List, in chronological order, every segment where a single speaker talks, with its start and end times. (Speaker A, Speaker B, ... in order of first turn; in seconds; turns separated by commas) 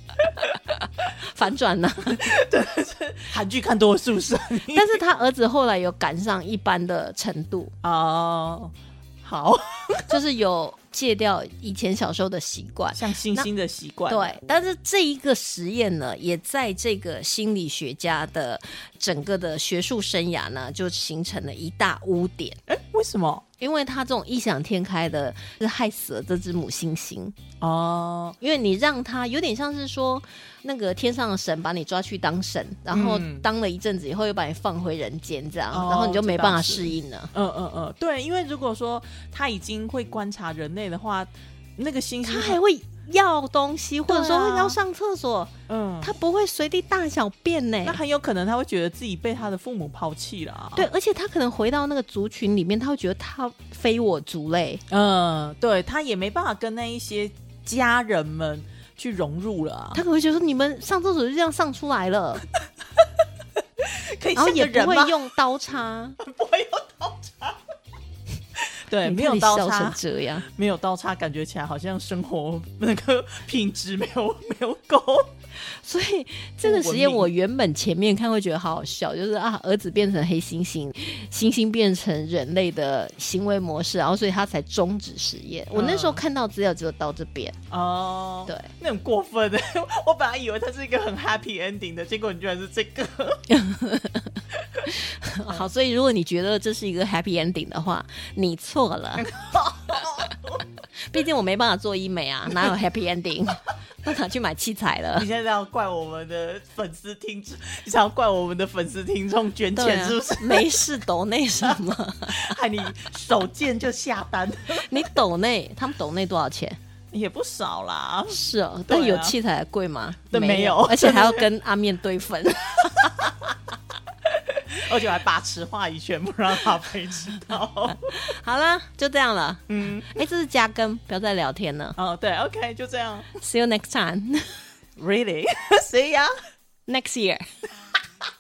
Speaker A: 1.0-2.3, Speaker B: 2.0-5.0, Speaker A: 4.7-7.7, Speaker B: 7.8-10.1, Speaker A: 10.1-13.5, Speaker B: 12.9-14.4, Speaker A: 14.1-22.6, Speaker B: 22.7-23.4, Speaker A: 23.6-27.4, Speaker B: 27.6-28.4, Speaker A: 28.4-37.3, Speaker B: 32.9-33.5, Speaker B: 35.7-42.6, Speaker A: 42.2-48.0, Speaker B: 44.1-44.8, Speaker B: 45.7-46.1, Speaker B: 47.9-50.9, Speaker A: 50.8-54.8, Speaker B: 54.9-60.0, Speaker A: 59.9-62.5, Speaker B: 63.8-65.2, Speaker A: 64.4-66.2, Speaker B: 66.2-67.6, Speaker B: 68.9-75.3, Speaker A: 69.0-70.5, Speaker A: 75.6-87.6, Speaker B: 76.6-77.3, Speaker B: 85.7-86.2, Speaker B: 87.7-93.5, Speaker A: 93.5-99.3, Speaker B: 99.2-100.6, Speaker A: 101.1-105.3, Speaker B: 105.2-110.7, Speaker A: 109.8-112.6, Speaker B: 111.6-115.0, Speaker A: 114.8-116.8, Speaker B: 117.1-119.4, Speaker A: 118.3-123.4, Speaker B: 120.3-121.5, Speaker B: 124.5-128.2, Speaker A: 128.1-132.0, Speaker B: 129.7-130.2, Speaker B: 132.0-133.3, Speaker A: 133.4-134.6, Speaker B: 135.0-136.3, Speaker A: 136.9-137.4